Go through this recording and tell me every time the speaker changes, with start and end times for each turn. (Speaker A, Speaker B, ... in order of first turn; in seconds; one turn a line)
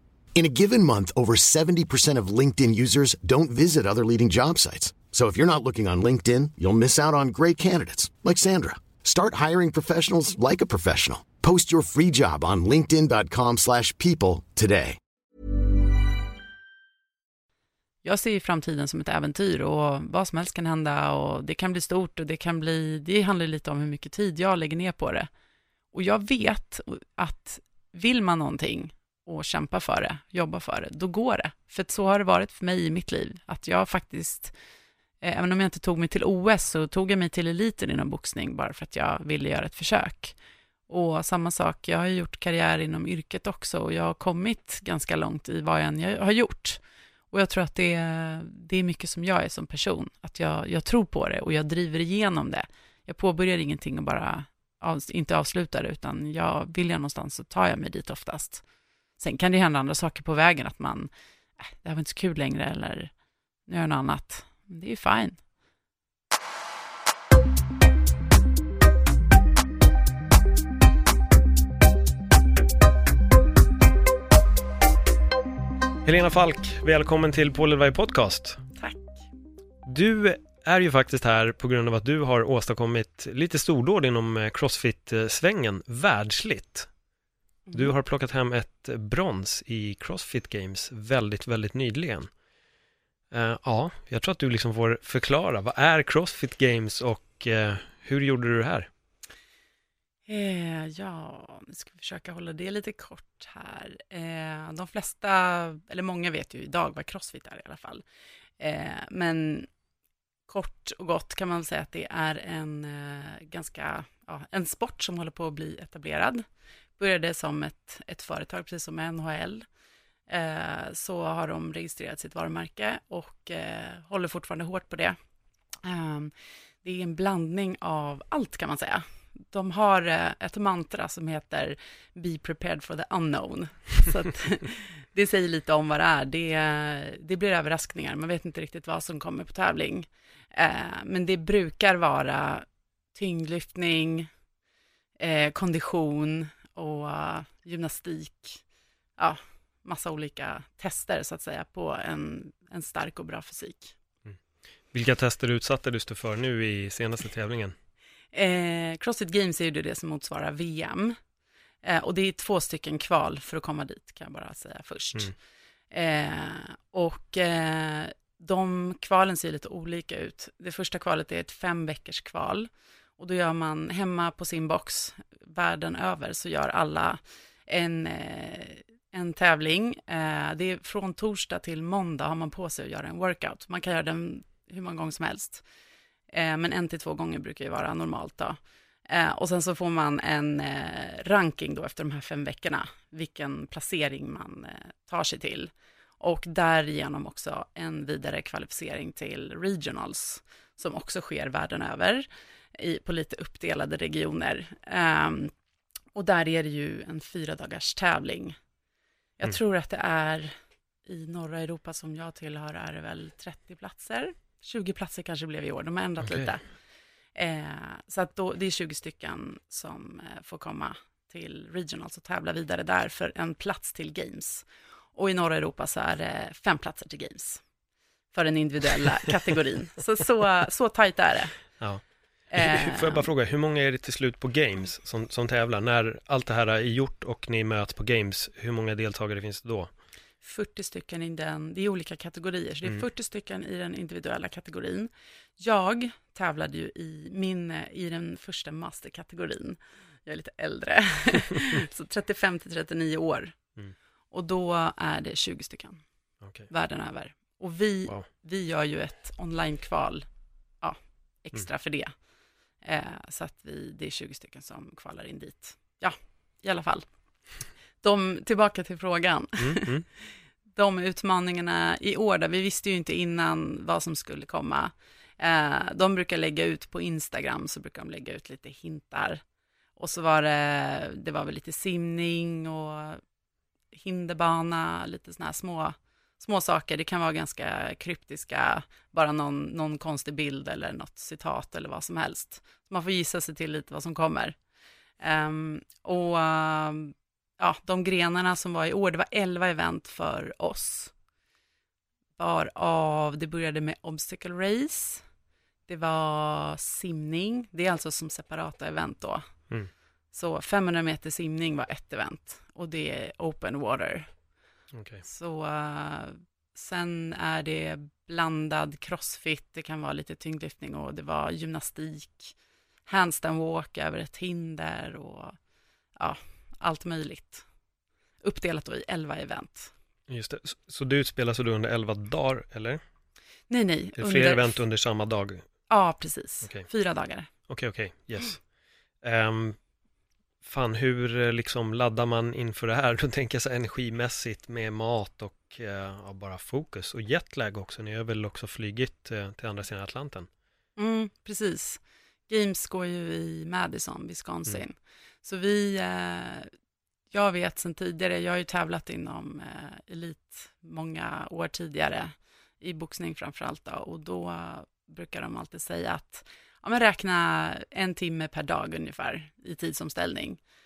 Speaker A: 0.4-15.0
Speaker B: 18.0-25.3
Speaker B: 25.9-34.5
Speaker B: 35.2-40.4
Speaker B: 40.9-46.8
Speaker B: 47.3-58.6
Speaker B: 59.2-63.1
Speaker B: 63.7-65.4
Speaker C: 76.0-78.6
Speaker B: 78.8-79.1
Speaker C: 79.8-86.9
Speaker B: 87.7-87.9
Speaker C: 87.7-92.3
Speaker C: 93.3-98.9
Speaker B: 100.3-108.0
Speaker B: 108.6-109.7
Speaker B: 110.5-116.5
Speaker B: 117.0-119.7
Speaker B: 120.3-125.2
Speaker B: 125.8-144.3
Speaker B: 145.2-148.6
Speaker B: 149.2-154.0
Speaker C: 154.9-157.8
Speaker B: 158.3-161.2
Speaker B: 161.8-165.3
Speaker B: 165.9-185.6
Speaker B: 186.3-205.5
Speaker B: 206.1-208.6
Speaker B: 209.4-210.5
Speaker B: 211.1-216.7
Speaker C: 216.2-216.6
Speaker B: 217.3-227.6
Speaker B: 228.3-231.8
Speaker C: 231.8-232.1
Speaker B: 232.5-233.3
Speaker C: 232.6-239.9
Speaker B: 240.4-253.6
Speaker B: 254.3-256.0
Speaker C: 256.4-256.7
Speaker B: 256.7-260.3
Speaker B: 260.8-262.1
Speaker B: 262.8-267.1
Speaker B: 268.0-279.4
Speaker C: 269.6-270.1
Speaker B: 280.0-283.2
Speaker B: 283.9-294.6
Speaker B: 295.2-301.1
Speaker B: 302.4-305.2
Speaker B: 305.9-309.6
Speaker B: 310.3-314.3
Speaker C: 314.9-315.2
Speaker B: 315.2-322.6
Speaker B: 323.1-325.6
Speaker B: 326.2-327.7
Speaker B: 328.4-329.9
Speaker C: 330.3-333.0
Speaker B: 333.7-334.8
Speaker C: 334.2-335.6
Speaker B: 335.9-337.5
Speaker C: 337.7-338.6
Speaker C: 339.2-339.8
Speaker C: 340.6-350.5
Speaker B: 351.0-356.7
Speaker B: 357.3-370.6